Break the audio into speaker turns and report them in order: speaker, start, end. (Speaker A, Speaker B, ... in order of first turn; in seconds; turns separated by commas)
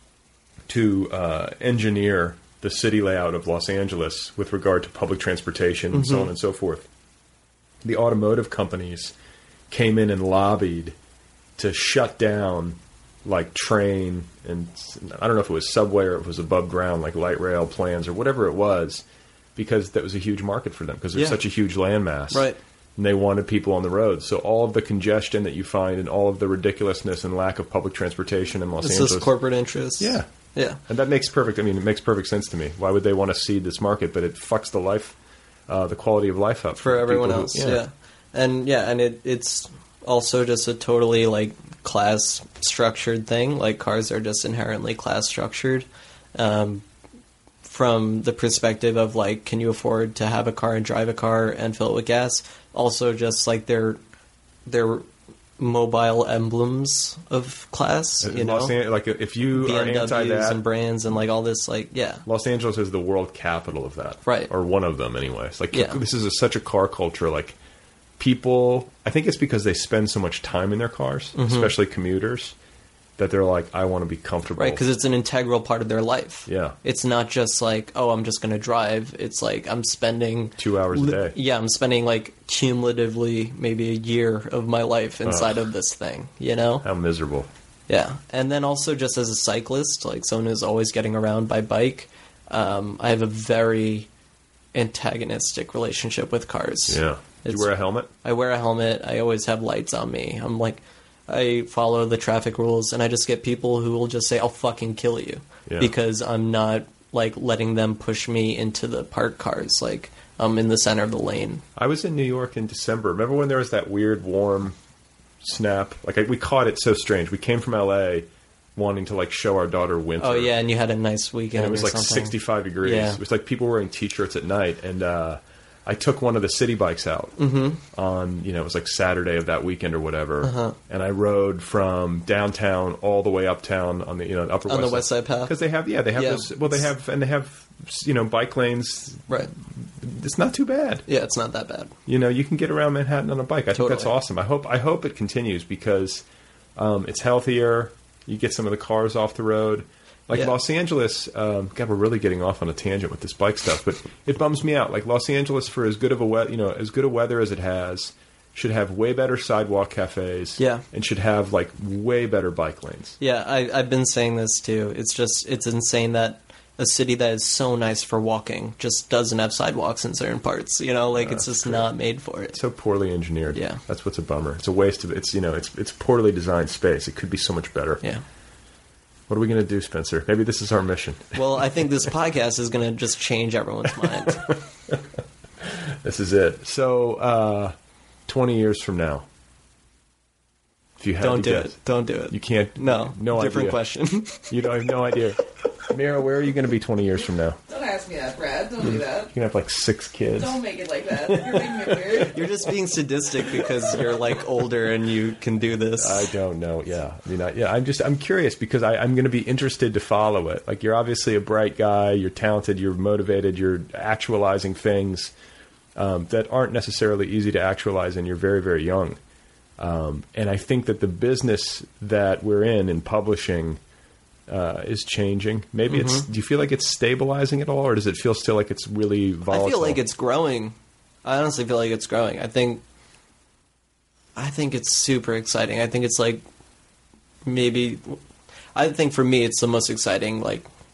Speaker A: 0.7-6.9, Speaker B: 5.9-6.3, Speaker A: 7.8-9.1, Speaker A: 9.7-10.9, Speaker A: 11.6-19.0, Speaker A: 19.6-29.3, Speaker B: 21.1-21.4, Speaker B: 22.3-22.6, Speaker B: 28.8-30.8, Speaker A: 30.0-30.3, Speaker A: 30.9-35.1, Speaker A: 35.7-37.8, Speaker B: 36.8-46.8, Speaker B: 47.6-54.0, Speaker B: 54.6-55.0, Speaker B: 55.6-58.8, Speaker A: 58.2-60.6, Speaker B: 59.5-62.2, Speaker A: 62.2-67.5, Speaker B: 64.2-64.5, Speaker B: 65.7-66.0, Speaker A: 68.2-72.5, Speaker B: 71.3-71.7, Speaker A: 73.2-74.8, Speaker B: 74.6-86.8, Speaker A: 76.5-76.8, Speaker A: 80.6-81.3, Speaker A: 85.2-85.6, Speaker A: 86.8-87.5, Speaker B: 87.9-94.1, Speaker B: 94.7-97.7, Speaker A: 96.9-98.1, Speaker B: 98.2-111.6, Speaker A: 105.7-105.9, Speaker A: 111.8-114.8, Speaker A: 115.4-120.5, Speaker B: 120.2-123.2, Speaker A: 121.5-127.4, Speaker B: 127.4-127.8, Speaker A: 127.9-139.3, Speaker B: 130.4-130.8, Speaker B: 134.7-135.5, Speaker B: 136.1-136.6, Speaker A: 140.0-141.1, Speaker B: 141.1-141.9, Speaker A: 142.1-146.2, Speaker B: 143.7-144.1, Speaker A: 146.8-163.2, Speaker B: 160.6-160.8, Speaker B: 163.2-172.6, Speaker A: 171.1-171.9, Speaker A: 172.5-178.0, Speaker B: 173.5-173.8, Speaker A: 179.3-181.4, Speaker B: 181.3-184.6, Speaker A: 184.3-185.0, Speaker A: 186.0-187.7, Speaker A: 188.3-189.2, Speaker A: 191.0-193.8, Speaker B: 191.2-194.5, Speaker A: 194.5-197.6, Speaker C: 197.7-199.3, Speaker A: 199.3-200.6, Speaker C: 200.4-202.3, Speaker A: 201.3-202.1, Speaker B: 202.3-206.3, Speaker A: 206.0-215.3, Speaker A: 215.9-219.2, Speaker A: 219.8-223.8, Speaker A: 224.5-230.0, Speaker B: 225.9-226.3, Speaker B: 229.5-232.8, Speaker B: 234.3-236.4, Speaker B: 237.4-238.2, Speaker B: 238.7-240.7